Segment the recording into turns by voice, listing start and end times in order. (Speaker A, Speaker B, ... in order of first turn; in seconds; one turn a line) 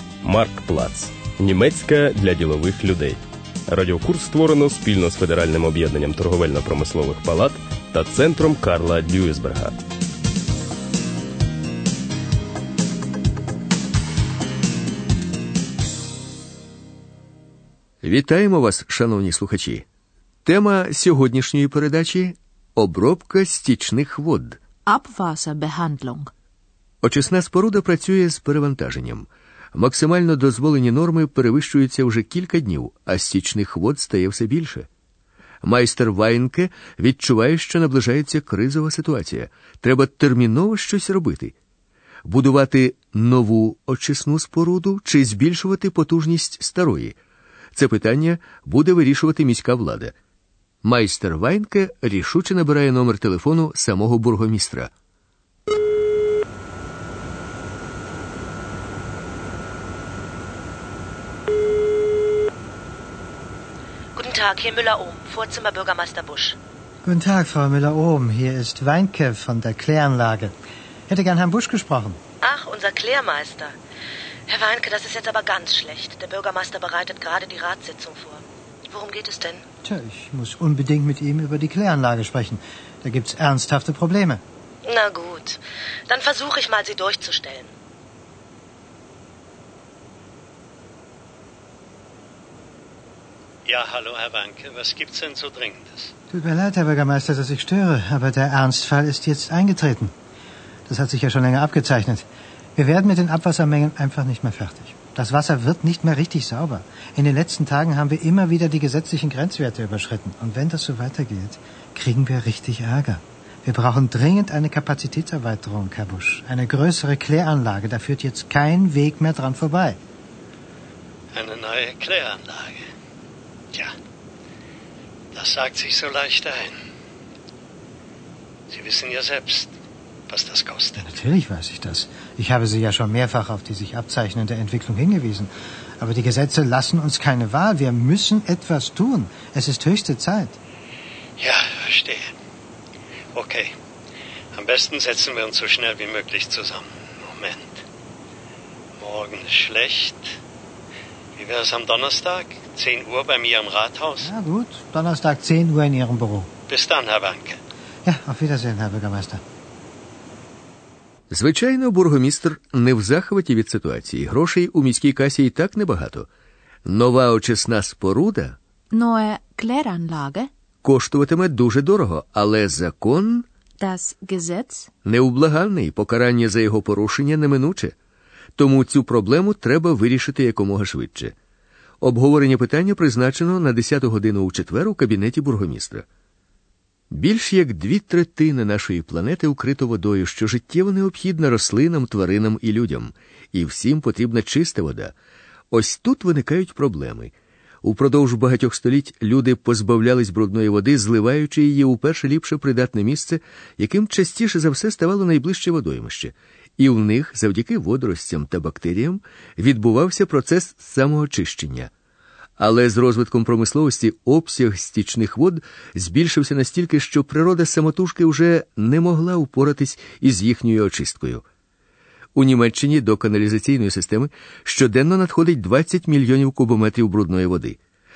Speaker A: 0.2-9.8
Speaker B: 18.0-19.8
Speaker B: 20.4-24.6
Speaker C: 24.9-26.3
Speaker B: 27.0-34.9
Speaker B: 35.6-41.5
Speaker B: 42.2-47.1
Speaker B: 47.7-50.1
Speaker B: 50.8-54.9
Speaker D: 64.1-66.5
Speaker E: 67.0-70.5
Speaker E: 71.1-72.2
Speaker D: 72.4-73.7
Speaker D: 74.5-79.6
Speaker E: 79.8-84.4
Speaker D: 84.8-87.7
Speaker F: 93.7-96.1
Speaker E: 96.3-100.1
Speaker E: 100.9-120.0
Speaker F: 121.3-122.8
Speaker F: 125.3-126.7
Speaker F: 128.7-129.7
Speaker F: 130.3-131.2
Speaker E: 131.0-140.6
Speaker F: 141.4-142.3
Speaker F: 143.3-143.7
Speaker F: 144.5-147.8
Speaker F: 149.0-150.4
Speaker F: 151.3-154.3
Speaker E: 154.2-156.5
Speaker F: 156.7-157.6
Speaker E: 158.0-159.4
Speaker B: 161.3-166.3
Speaker B: 166.8-168.6
Speaker C: 168.9-170.5
Speaker B: 170.8-173.4
Speaker C: 173.8-174.9
Speaker B: 175.0-177.9
Speaker B: 178.6-181.3
Speaker B: 182.0-186.0
Speaker B: 187.1-195.1
Speaker B: 195.7-211.9
Speaker B: 212.6-221.4
Speaker B: 222.3-227.8